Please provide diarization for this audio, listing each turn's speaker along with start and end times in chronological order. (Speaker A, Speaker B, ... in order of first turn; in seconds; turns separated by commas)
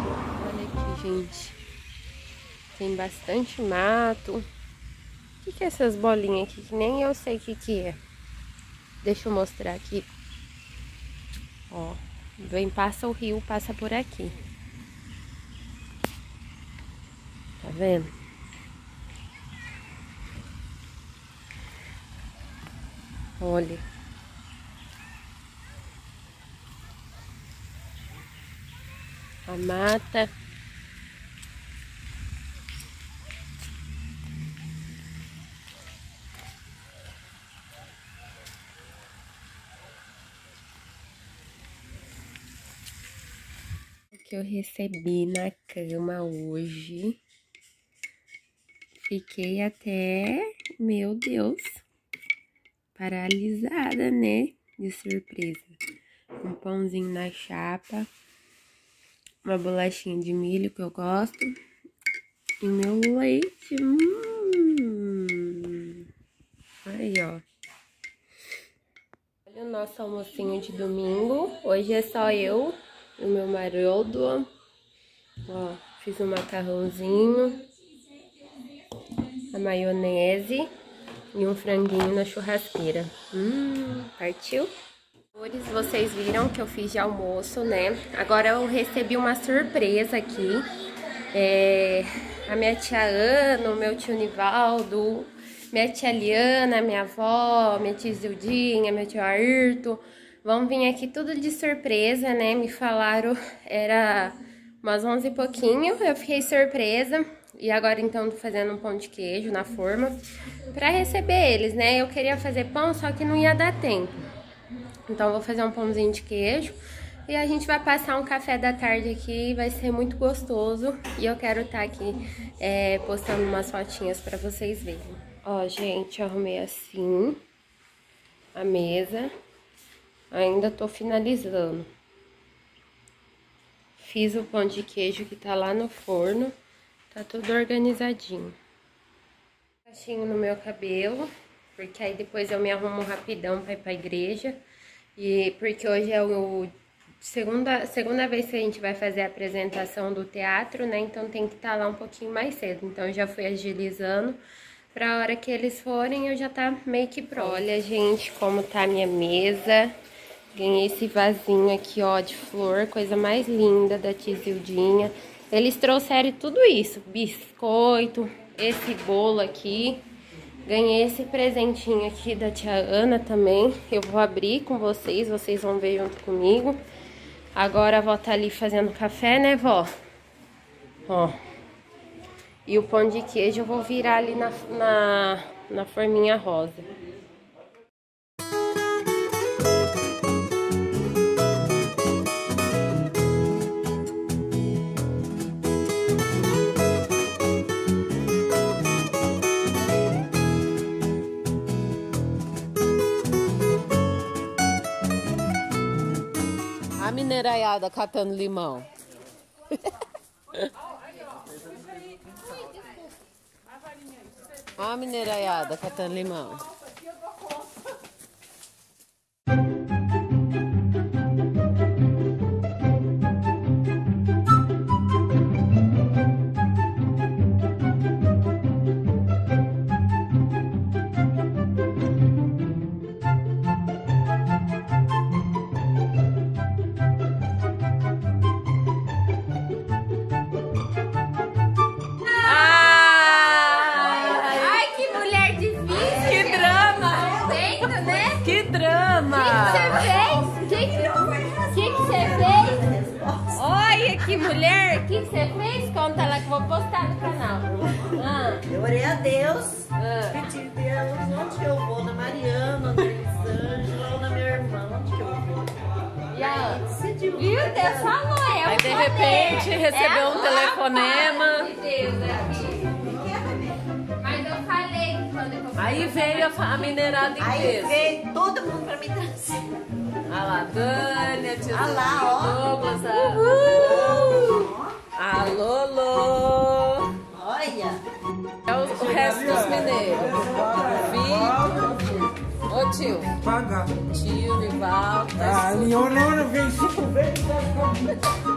Speaker A: 0.3-1.6, Speaker A: 2.7-4.5, Speaker A: 5.4-8.0, Speaker A: 9.0-10.1, Speaker A: 11.7-14.3, Speaker A: 17.6-18.1, Speaker A: 23.4-23.8, Speaker A: 29.5-30.3, Speaker A: 44.1-47.2, Speaker A: 48.9-51.8, Speaker A: 52.9-55.8, Speaker A: 56.4-58.1, Speaker A: 59.4-61.6, Speaker A: 62.6-66.1, Speaker A: 66.8-67.4, Speaker A: 69.5-74.5, Speaker A: 75.4-77.6, Speaker A: 79.5-80.7, Speaker A: 81.3-84.7, Speaker A: 85.3-90.7, Speaker A: 91.3-114.2, Speaker A: 115.1-127.4, Speaker A: 128.5-129.3, Speaker A: 130.3-131.9, Speaker A: 134.0-136.5, Speaker A: 137.1-138.6, Speaker A: 139.8-144.6, Speaker A: 145.2-154.4, Speaker A: 154.9-159.9, Speaker A: 160.5-170.0, Speaker A: 170.6-176.8, Speaker A: 177.5-179.9, Speaker A: 181.1-181.4, Speaker A: 182.7-186.9, Speaker B: 207.0-208.9, Speaker B: 214.8-216.7, Speaker A: 242.2-243.0, Speaker B: 242.4-244.7, Speaker A: 244.0-248.5, Speaker C: 245.9-247.5, Speaker B: 246.1-247.4, Speaker B: 248.3-250.1, Speaker A: 249.3-252.8, Speaker C: 249.9-253.5, Speaker A: 253.5-258.7, Speaker C: 258.7-268.1, Speaker A: 266.3-273.1, Speaker B: 268.6-271.7, Speaker C: 272.9-273.8, Speaker A: 274.2-277.2, Speaker B: 275.8-278.2, Speaker C: 277.4-279.7, Speaker B: 280.3-287.2, Speaker C: 281.7-282.6, Speaker C: 283.3-284.9, Speaker C: 287.3-288.0, Speaker B: 288.7-293.4, Speaker D: 290.4-290.9, Speaker D: 291.5-291.8, Speaker D: 293.5-293.9, Speaker B: 293.9-296.4, Speaker D: 295.6-298.1